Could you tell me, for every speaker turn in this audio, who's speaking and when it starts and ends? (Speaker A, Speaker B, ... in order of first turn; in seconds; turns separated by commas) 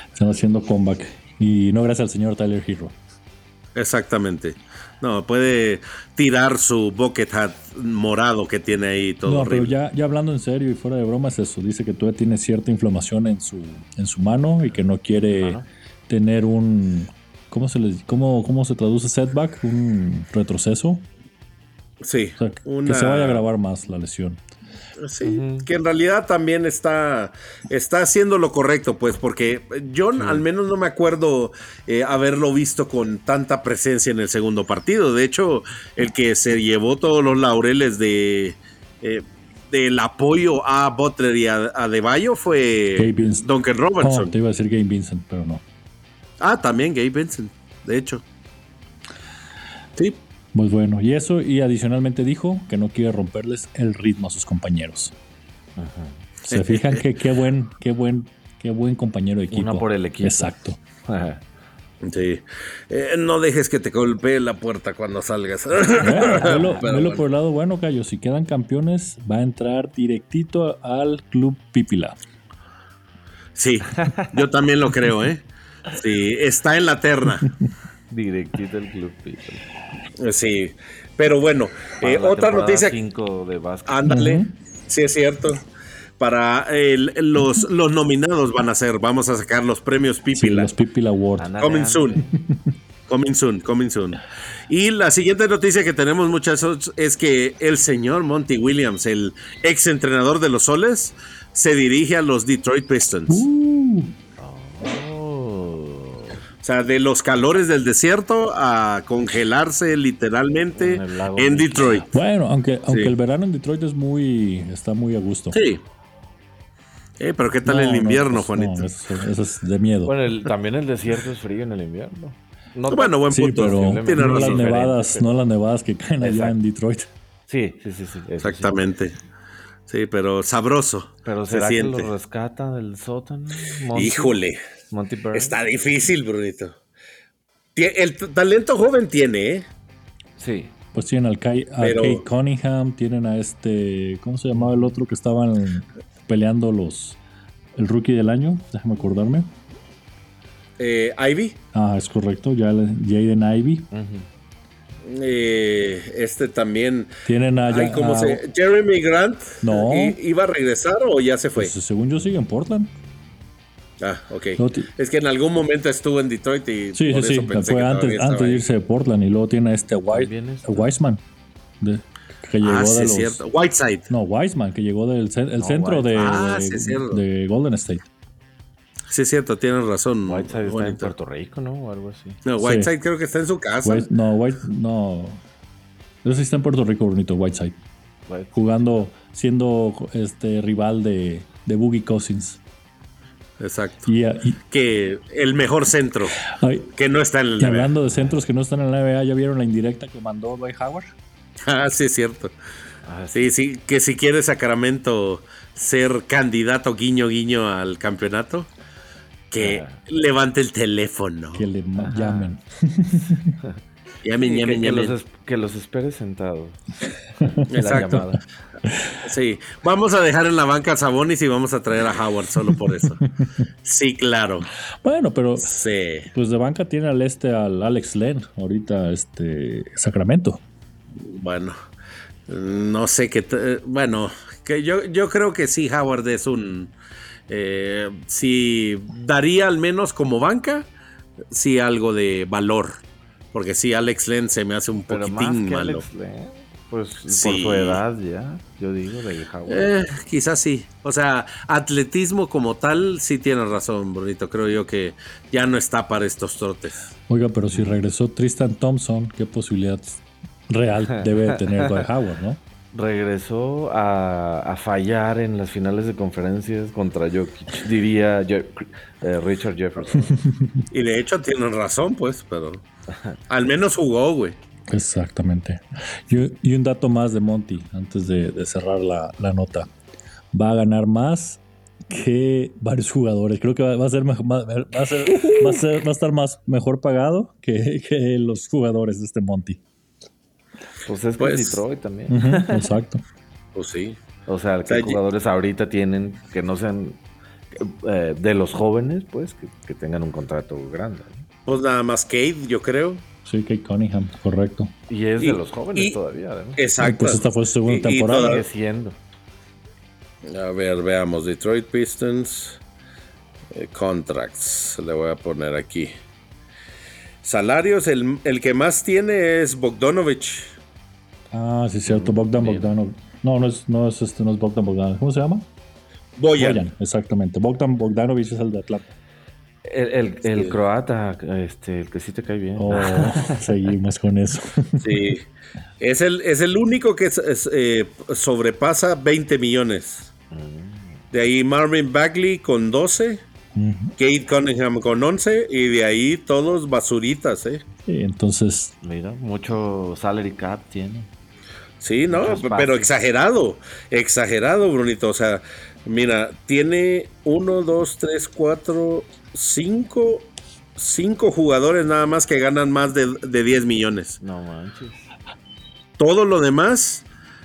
Speaker A: 0.1-3.0, Speaker B: 3.8-9.7, Speaker A: 9.3-21.1, Speaker C: 15.3-15.7, Speaker B: 22.0-23.4, Speaker A: 22.4-24.4, Speaker B: 25.0-44.3, Speaker C: 25.2-25.7, Speaker A: 43.0-43.5, Speaker A: 44.0-45.6, Speaker B: 46.4-48.2, Speaker A: 50.5-55.1, Speaker C: 55.8-56.2, Speaker A: 56.5-60.8, Speaker B: 56.5-57.0, Speaker C: 59.5-60.5, Speaker C: 61.0-61.4, Speaker B: 62.0-67.2, Speaker A: 66.0-72.2, Speaker B: 73.6-77.5, Speaker C: 74.0-74.3, Speaker C: 78.1-79.7, Speaker B: 80.2-83.0, Speaker C: 82.0-84.0, Speaker B: 83.9-85.6, Speaker A: 84.1-84.5, Speaker B: 86.2-90.7, Speaker A: 90.3-91.5, Speaker C: 91.4-92.2, Speaker B: 91.6-92.2, Speaker B: 93.1-103.5, Speaker A: 103.3-104.2, Speaker C: 104.4-106.4, Speaker B: 106.6-112.1, Speaker C: 110.8-112.0, Speaker A: 112.0-115.6, Speaker B: 112.9-113.2, Speaker B: 115.5-115.8, Speaker B: 117.2-118.9, Speaker A: 117.7-120.1, Speaker C: 120.1-125.3, Speaker B: 122.9-124.8, Speaker A: 123.3-127.1, Speaker C: 126.2-126.6, Speaker C: 127.5-128.8, Speaker B: 128.4-129.2, Speaker B: 129.9-132.1, Speaker C: 131.2-135.6, Speaker B: 133.9-134.6, Speaker B: 135.3-136.8, Speaker B: 137.8-139.7, Speaker C: 140.4-140.7, Speaker A: 140.9-147.2, Speaker B: 141.8-142.2, Speaker A: 147.8-149.5, Speaker B: 150.8-151.6, Speaker A: 151.7-153.9, Speaker C: 153.9-154.3, Speaker B: 155.0-157.1, Speaker A: 157.2-158.4, Speaker B: 157.7-161.7, Speaker A: 159.6-160.2, Speaker A: 161.6-162.9, Speaker B: 164.0-168.6, Speaker A: 164.6-164.9, Speaker A: 166.9-171.2, Speaker C: 170.1-170.9, Speaker A: 171.8-173.4, Speaker B: 172.6-174.1, Speaker A: 174.1-178.1, Speaker C: 175.6-176.4, Speaker B: 176.2-177.2, Speaker B: 179.1-181.1, Speaker C: 180.2-182.4, Speaker B: 182.4-184.1, Speaker A: 182.6-182.9, Speaker A: 183.8-185.4, Speaker A: 186.2-187.8, Speaker C: 188.3-188.6, Speaker A: 188.5-192.6, Speaker B: 193.6-194.1, Speaker A: 194.1-194.6, Speaker B: 194.7-196.4, Speaker A: 196.4-196.9, Speaker B: 196.9-197.9, Speaker A: 197.6-201.1, Speaker B: 201.7-202.5, Speaker C: 203.1-203.5, Speaker B: 203.3-208.7, Speaker B: 209.5-211.7, Speaker C: 209.6-210.0, Speaker A: 211.6-213.6, Speaker C: 212.0-212.5, Speaker B: 214.2-215.1, Speaker C: 214.4-216.8, Speaker A: 217.4-218.2, Speaker C: 217.7-218.4, Speaker B: 217.7-218.3, Speaker B: 219.2-223.2, Speaker B: 223.8-224.7, Speaker A: 225.0-225.7, Speaker B: 225.6-226.3, Speaker A: 226.3-230.6, Speaker B: 231.2-231.8, Speaker B: 232.5-236.9, Speaker B: 237.5-240.9, Speaker B: 241.5-243.0, Speaker B: 243.5-246.1, Speaker C: 245.1-249.9, Speaker B: 247.3-248.0, Speaker B: 249.7-257.1, Speaker A: 257.3-262.6, Speaker C: 257.7-258.0, Speaker C: 261.2-262.0, Speaker C: 262.9-270.4, Speaker A: 270.3-270.8, Speaker B: 270.9-272.8, Speaker B: 273.5-274.6, Speaker A: 274.9-279.9, Speaker A: 280.5-289.8, Speaker C: 291.1-292.9, Speaker B: 291.4-291.8, Speaker A: 292.3-293.2, Speaker B: 293.8-294.2, Speaker C: 294.5-297.2, Speaker B: 294.9-295.2, Speaker C: 297.7-301.5, Speaker B: 301.7-303.2, Speaker A: 303.4-304.9, Speaker C: 305.1-306.8, Speaker B: 305.4-306.2, Speaker B: 306.8-308.7, Speaker A: 307.0-308.6, Speaker C: 308.4-309.2, Speaker B: 310.4-312.8, Speaker B: 313.7-316.1, Speaker B: 317.4-320.7, Speaker A: 321.5-325.7, Speaker C: 322.1-322.9, Speaker B: 326.4-326.9, Speaker A: 326.6-329.1, Speaker C: 329.9-333.7, Speaker A: 332.8-335.1, Speaker B: 335.0-335.5, Speaker B: 336.0-340.3, Speaker C: 340.5-341.2, Speaker B: 341.3-343.4, Speaker A: 343.8-344.1, Speaker B: 344.2-347.8, Speaker A: 348.1-348.9, Speaker C: 349.0-351.3, Speaker B: 352.0-364.4, Speaker C: 352.3-353.1, Speaker C: 364.4-365.3, Speaker B: 366.2-367.2